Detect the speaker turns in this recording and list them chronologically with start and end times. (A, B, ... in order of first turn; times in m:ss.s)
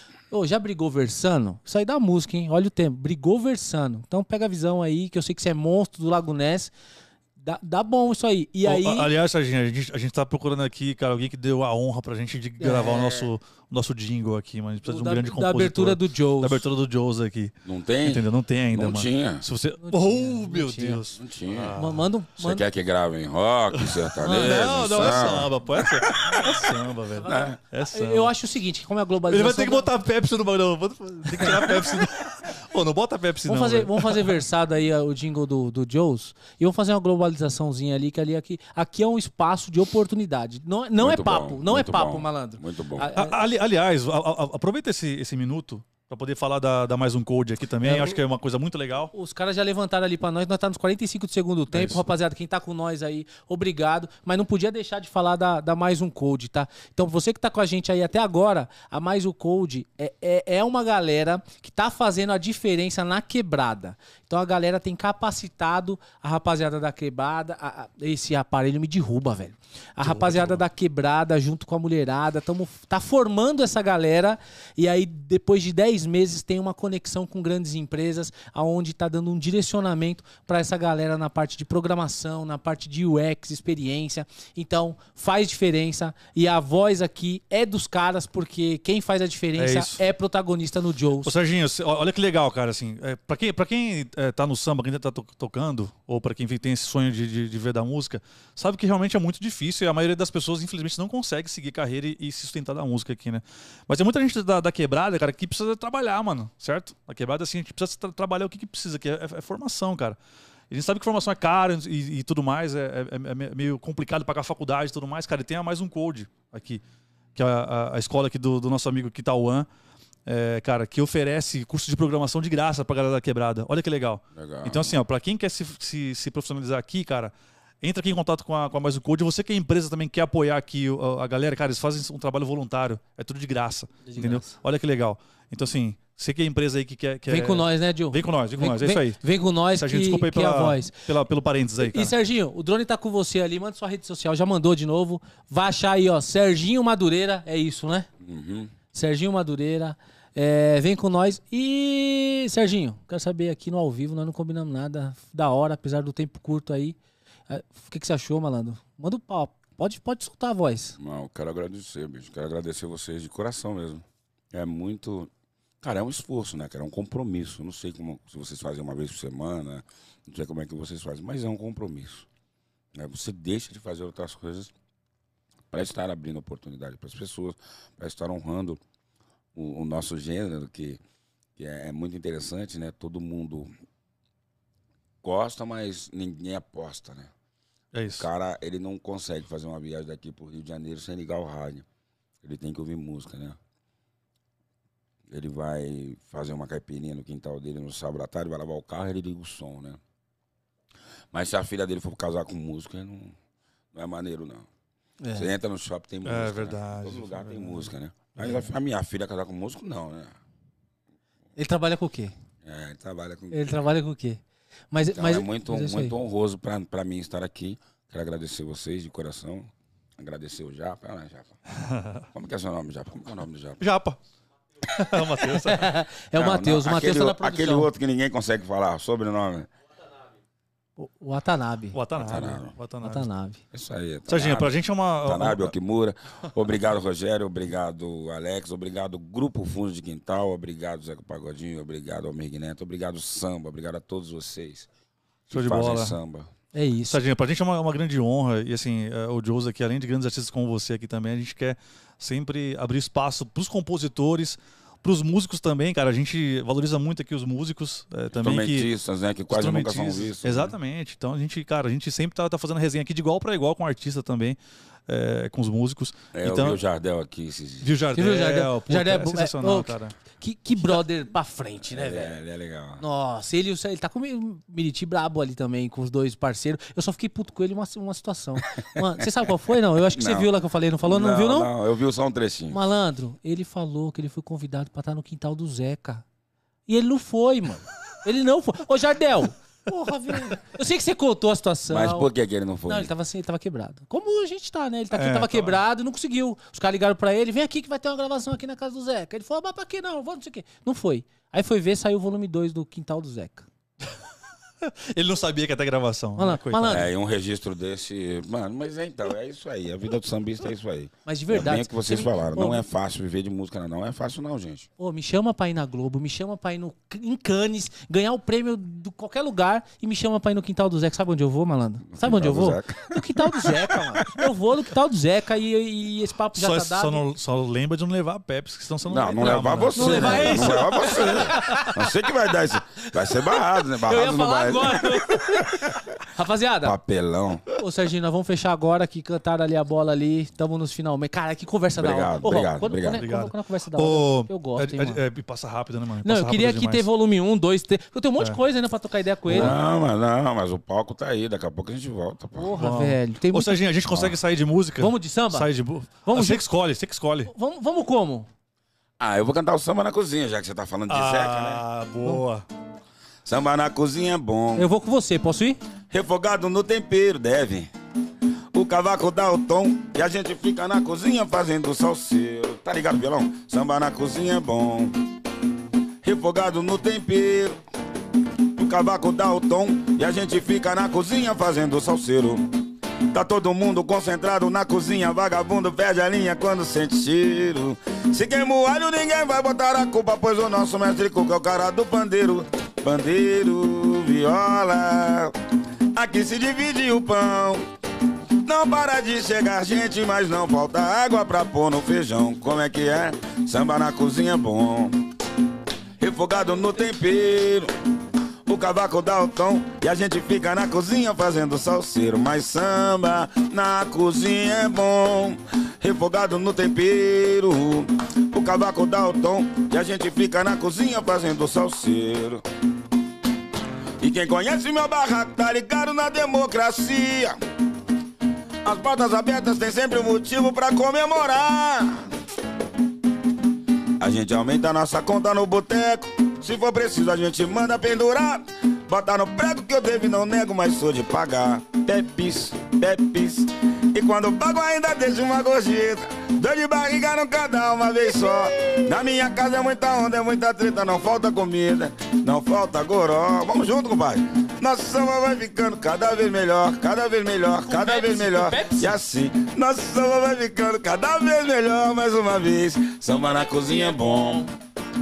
0:00.3-0:06.7 A
0:07.4-0:09.1 A
0:08.7-0:17.5 B
0:12.6-0:13.3 A
0:14.8-0:16.7 A
0:17.6-0:19.4 C
0:18.0-0:22.1 B
0:19.8-0:21.0 A
0:21.2-0:21.8 C
0:21.8-0:22.6 A
0:22.4-0:26.5 C
0:23.8-0:28.3 B
0:24.2-0:25.5 A
0:26.4-0:29.9 A
0:27.2-0:27.6 C
0:29.3-0:34.4 B
0:31.3-0:31.6 A
0:33.4-0:43.4 A
0:41.0-0:43.1 C
0:43.2-0:49.1 B
0:47.8-0:48.2 A
0:49.1-1:31.3 A
0:51.7-0:52.0 B
1:10.0-1:10.6 B
1:29.6-1:30.0 B
1:31.2-1:50.2 B
1:50.7-1:56.8 B
1:57.4-1:59.7 B
2:00.3-2:19.2 B
2:04.4-2:05.0 C
2:14.0-2:14.5 A
2:17.3-2:21.0 A
2:19.8-2:22.1 B
2:21.8-2:28.1 A
2:28.2-2:28.7 C
2:28.9-2:37.0 A
2:37.5-2:41.0 A
2:41.0-2:45.3 C
2:45.8-2:52.3 C
2:53.0-2:54.7 C
2:55.7-2:58.8 C
2:59.6-3:01.0 C
3:01.6-3:03.7 C
3:05.2-3:07.3 C
3:07.9-3:08.3 B
3:08.1-3:11.9 C
3:12.4-3:13.6 C
3:15.3-3:20.0 C
3:21.3-3:23.4 C
3:23.9-3:24.7 C
3:25.2-3:25.5 A
3:25.4-3:30.4 C
3:26.2-3:27.9 B
3:31.6-3:32.4 A
3:32.6-3:33.7 C
3:33.5-3:34.4 A
3:34.9-3:36.2 A
3:35.1-3:41.6 C
3:41.8-3:42.2 B
3:42.3-3:43.8 C
3:43.8-3:44.2 B
3:44.9-3:45.9 B
3:44.9-3:47.9 A
3:46.4-3:49.7 C
3:51.0-3:52.0 A
3:51.9-3:53.3 B
3:52.1-3:52.8 C
3:53.0-3:53.6 A
3:53.7-4:04.9 C
3:54.3-3:55.7 B
4:05.5-4:06.5 C
4:05.5-4:06.2 B
4:06.7-4:07.2 A
4:07.1-4:18.9 B
4:18.3-4:20.8 C
4:19.5-4:24.6 B
4:25.1-4:26.8 B
4:26.3-4:27.9 C
4:27.8-4:30.2 B
4:28.2-4:32.4 A
4:31.9-4:33.0 C
4:33.0-4:41.7 A
4:40.0-4:40.5 C
4:41.0-4:42.8 C
4:42.7-4:46.2 A
4:46.9-4:52.3 A
4:51.9-4:53.1 C
4:52.9-5:03.7 A
4:55.1-4:55.8 B
5:04.8-5:06.9 B
5:06.4-5:07.1 A
5:06.9-5:14.9 C
5:11.3-5:12.8 A
5:15.0-5:27.2 A
5:22.1-5:23.7 C
5:26.6-5:31.9 B
5:29.0-5:36.1 C
5:29.4-5:32.0 A
5:33.0-5:37.0 A
5:36.8-5:37.6 C
5:37.8-5:45.2 A
5:42.0-5:43.2 C
5:43.2-5:47.1 B
5:46.2-5:49.8 A
5:49.5-5:52.8 C
5:52.6-5:53.8 A
5:52.8-5:57.5 B
5:55.0-5:55.7 A
5:56.2-5:56.6 A
5:57.5-5:58.5 A
5:59.2-6:01.8 C
6:01.1-6:02.6 B
6:03.4-6:04.9 C
6:04.8-6:05.8 A
6:06.1-6:07.9 C
6:08.7-6:15.2 C
6:16.2-6:17.8 C
6:18.8-6:22.7 C
6:23.3-6:35.6 C
6:36.1-6:37.8 C
6:38.6-6:45.2 C
6:46.2-6:47.9 C
6:48.7-7:02.6 C
7:04.2-7:07.6 C
7:08.8-7:12.3 C
7:14.2-7:44.7 C
7:37.8-7:39.2 A
7:43.3-7:44.7 A